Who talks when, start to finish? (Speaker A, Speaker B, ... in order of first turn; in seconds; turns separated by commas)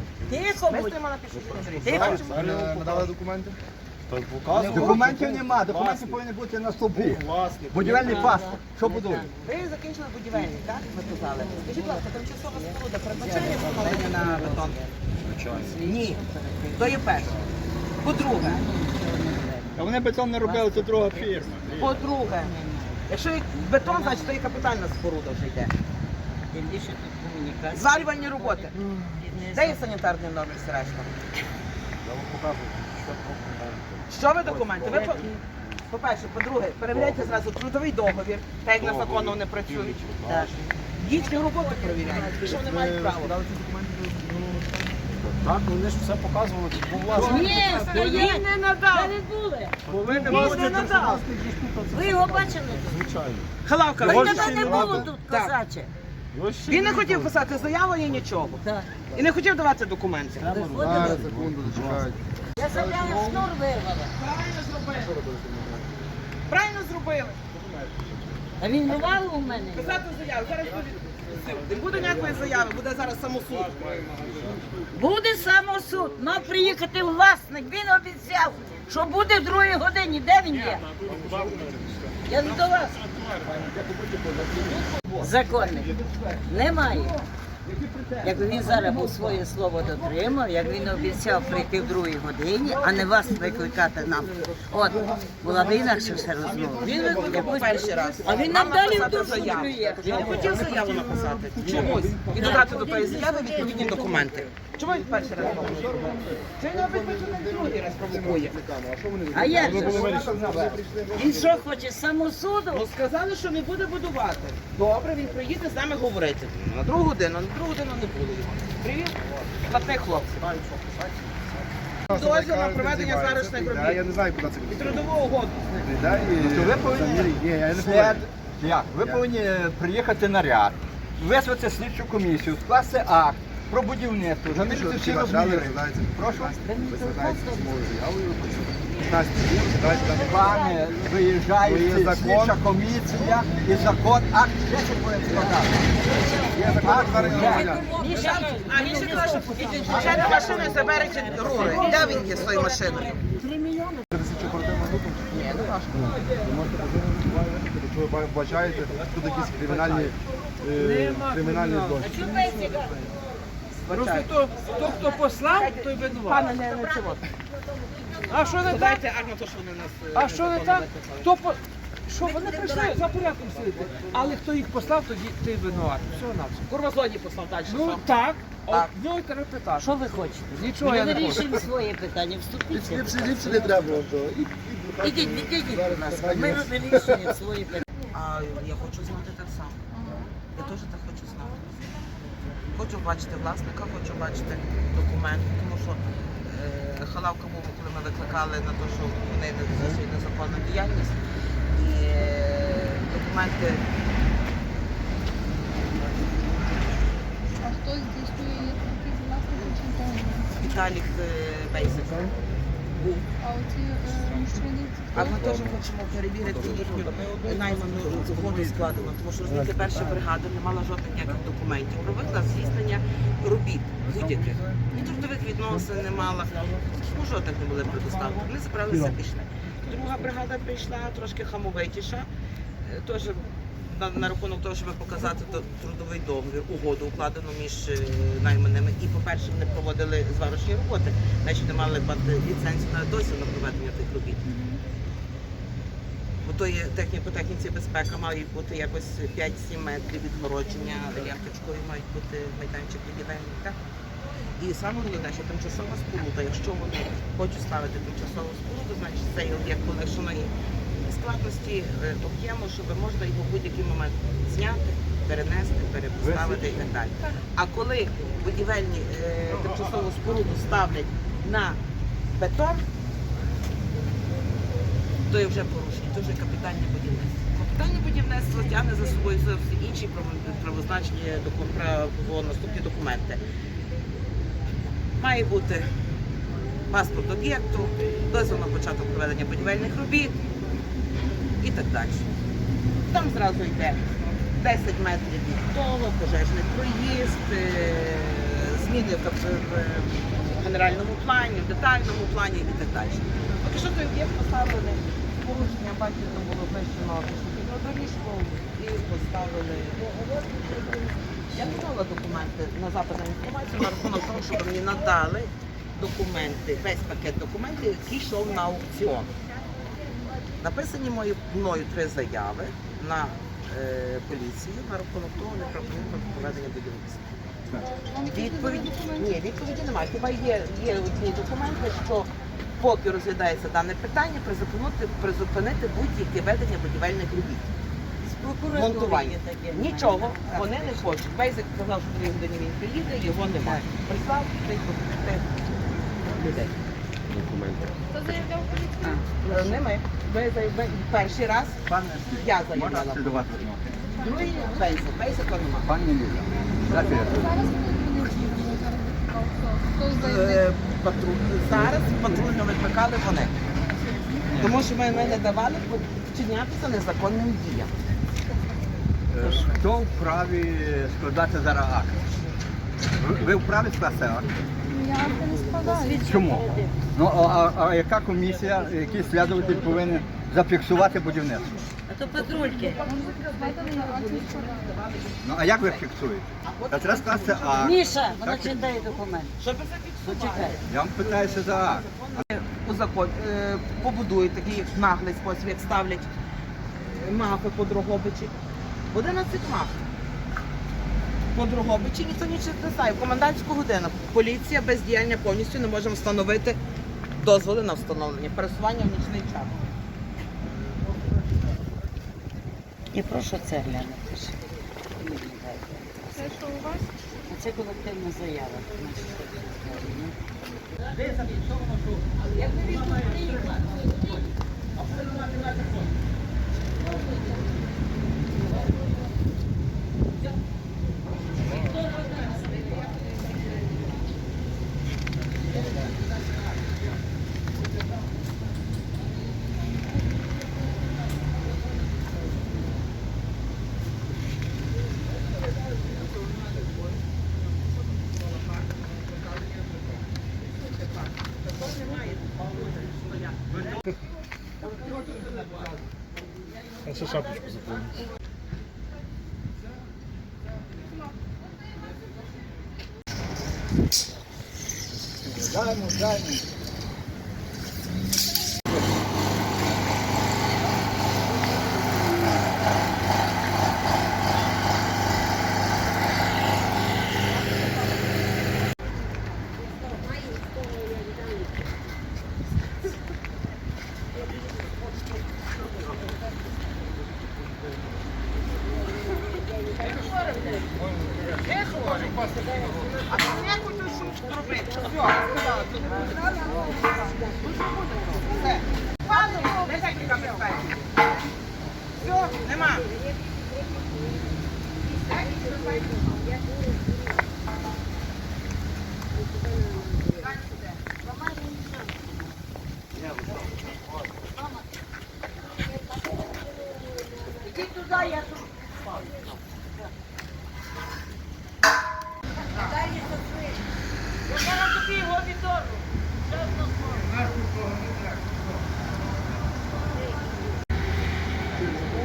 Speaker A: 0.2-1.0, Speaker B: 0.5-3.1, Speaker C: 1.3-2.6, Speaker A: 1.8-2.2, Speaker D: 1.8-3.6, Speaker C: 4.1-6.2, Speaker E: 4.5-9.3, Speaker B: 4.6-4.8, Speaker C: 6.9-8.3, Speaker A: 7.8-9.6, Speaker B: 9.4-14.8, Speaker A: 11.0-15.0, Speaker C: 15.2-15.8, Speaker A: 15.5-17.1, Speaker B: 15.8-16.2, Speaker B: 16.7-17.3, Speaker C: 17.1-17.5, Speaker B: 18.0-18.6, Speaker A: 18.1-23.1, Speaker E: 19.8-21.7, Speaker B: 21.8-22.5, Speaker B: 23.1-25.7, Speaker A: 23.7-24.7, Speaker A: 26.5-29.8, Speaker B: 27.7-31.1, Speaker C: 32.0-35.7, Speaker B: 34.1-40.0, Speaker C: 36.9-37.4, Speaker C: 38.7-40.6, Speaker A: 40.2-40.6, Speaker B: 41.0-43.4, Speaker A: 41.4-42.5, Speaker D: 42.0-45.1, Speaker C: 45.2-48.3, Speaker A: 47.1-49.8, Speaker B: 47.2-49.1, Speaker F: 48.0-48.4, Speaker C: 49.8-53.5, Speaker B: 50.0-51.2, Speaker D: 50.1-51.0, Speaker A: 51.9-53.2, Speaker B: 53.6-55.5, Speaker A: 54.0-55.9, Speaker E: 54.0-55.0, Speaker C: 54.1-54.5, Speaker D: 54.6-55.0, Speaker C: 56.3-58.3, Speaker B: 56.6-60.5, Speaker A: 58.6-58.9, Speaker A: 60.4-61.3, Speaker C: 60.4-62.0, Speaker D: 60.7-63.4, Speaker A: 62.6-64.1, Speaker B: 62.8-63.3, Speaker B: 64.1-65.2, Speaker D: 65.0-65.9, Speaker B: 66.5-67.4, Speaker D: 67.5-68.2, Speaker A: 68.6-70.0, Speaker B: 69.7-74.0, Speaker D: 71.2-72.4, Speaker C: 72.0-72.7, Speaker C: 73.4-75.0, Speaker D: 73.8-74.8, Speaker A: 74.9-80.9, Speaker C: 80.6-84.4, Speaker D: 81.0-81.8, Speaker A: 82.2-83.0, Speaker B: 84.5-85.3, Speaker A: 85.2-85.9, Speaker D: 85.2-86.4, Speaker A: 86.5-87.2, Speaker D: 87.6-88.3, Speaker A: 88.2-100.7, Speaker D: 92.6-102.8, Speaker B: 96.8-108.6, Speaker A: 101.7-104.2, Speaker D: 103.4-111.7, Speaker C: 105.4-106.3, Speaker A: 109.3-110.3, Speaker B: 109.6-110.3, Speaker C: 109.9-110.8, Speaker A: 111.1-112.8, Speaker B: 111.2-111.4, Speaker B: 112.7-120.4, Speaker C: 119.7-121.7, Speaker D: 122.1-125.1, Speaker B: 122.1-124.0, Speaker B: 124.7-125.9, Speaker D: 125.8-128.2, Speaker E: 126.3-136.5, Speaker D: 134.5-140.6, Speaker A: 136.6-137.8, Speaker C: 138.3-138.7, Speaker A: 139.5-141.0, Speaker E: 140.1-145.8, Speaker D: 141.6-142.6, Speaker B: 145.2-146.4, Speaker A: 145.9-154.0, Speaker D: 146.5-147.9, Speaker E: 146.7-147.8, Speaker F: 147.8-152.6, Speaker B: 147.9-153.2, Speaker D: 149.8-150.2, Speaker D: 154.1-162.2, Speaker B: 155.3-156.2, Speaker F: 159.5-160.1, Speaker F: 160.7-163.2, Speaker A: 162.0-163.2, Speaker B: 163.8-167.3, Speaker F: 163.9-166.5, Speaker A: 164.5-165.7, Speaker A: 166.2-168.9, Speaker F: 168.3-169.0, Speaker B: 168.6-171.3, Speaker F: 170.1-176.7, Speaker A: 172.2-173.2, Speaker C: 173.5-174.3, Speaker B: 176.5-178.1, Speaker F: 177.6-179.9, Speaker B: 178.7-178.9, Speaker A: 179.8-184.0, Speaker F: 180.5-181.7, Speaker D: 182.7-187.3, Speaker C: 182.9-184.2, Speaker A: 185.0-187.8, Speaker B: 188.1-189.8, Speaker G: 189.9-190.3, Speaker B: 190.5-191.6, Speaker B: 192.7-201.2, Speaker B: 201.7-203.8, Speaker G: 207.6-210.7, Speaker B: 210.6-212.3, Speaker B: 212.9-213.2, Speaker G: 213.4-215.4, Speaker B: 215.1-232.3, Speaker C: 215.3-215.8, Speaker C: 216.4-219.1, Speaker B: 232.8-244.5, Speaker B: 246.4-253.8, Speaker B: 254.6-260.5, Speaker B: 261.0-271.8, Speaker B: 272.4-272.8, Speaker B: 275.3-283.4, Speaker B: 285.2-285.9, Speaker B: 286.9-290.4, Speaker B: 291.6-292.3, Speaker B: 293.1-294.0, Speaker B: 294.6-310.1, Speaker B: 311.5-319.3, Speaker B: 320.6-327.2, Speaker G: 327.8-329.4, Speaker B: 328.3-337.7, Speaker A: 338.2-341.2, Speaker B: 338.7-345.6, Speaker A: 343.5-343.8, Speaker B: 346.3-346.7, Speaker C: 347.3-348.0, Speaker G: 348.1-349.2, Speaker A: 349.0-349.5, Speaker B: 349.4-353.5, Speaker E: 351.9-354.5, Speaker G: 354.1-354.8, Speaker B: 354.1-355.9, Speaker E: 355.8-357.5, Speaker G: 357.0-360.6, Speaker B: 360.1-363.6, Speaker E: 364.5-364.8, Speaker B: 364.5-367.9, Speaker E: 369.3-372.2, Speaker E: 373.2-374.5, Speaker G: 374.9-376.3, Speaker A: 375.7-376.9, Speaker E: 376.2-381.7, Speaker A: 382.1-383.0, Speaker B: 382.3-386.0, Speaker G: 382.9-385.0, Speaker E: 385.4-388.8, Speaker B: 386.6-396.3, Speaker A: 387.8-389.6, Speaker A: 390.2-390.8, Speaker E: 390.9-392.4, Speaker B: 396.9-398.5, Speaker B: 399.1-400.0, Speaker B: 401.5-406.8, Speaker B: 407.4-409.8, Speaker A: 413.1-414.5, Speaker A: 415.2-416.6, Speaker G: 416.3-417.1, Speaker A: 417.4-420.3, Speaker A: 421.2-424.4, Speaker B: 422.5-424.1, Speaker B: 425.0-425.9, Speaker A: 431.8-432.2, Speaker B: 446.4-446.9, Speaker B: 448.0-454.0, Speaker B: 454.8-455.8, Speaker A: 457.1-458.0, Speaker C: 457.5-458.0, Speaker E: 465.4-466.6, Speaker B: 490.0-490.8, Speaker A: 490.2-490.6, Speaker B: 491.5-501.1, Speaker G: 495.3-497.3, Speaker A: 496.0-496.9, Speaker G: 499.4-500.4, Speaker B: 502.2-503.1, Speaker B: 505.1-506.4, Speaker B: 510.2-511.0, Speaker A: 511.1-512.6, Speaker A: 513.2-514.8, Speaker A: 517.4-519.6, Speaker A: 522.8-523.6, Speaker A: 524.5-527.5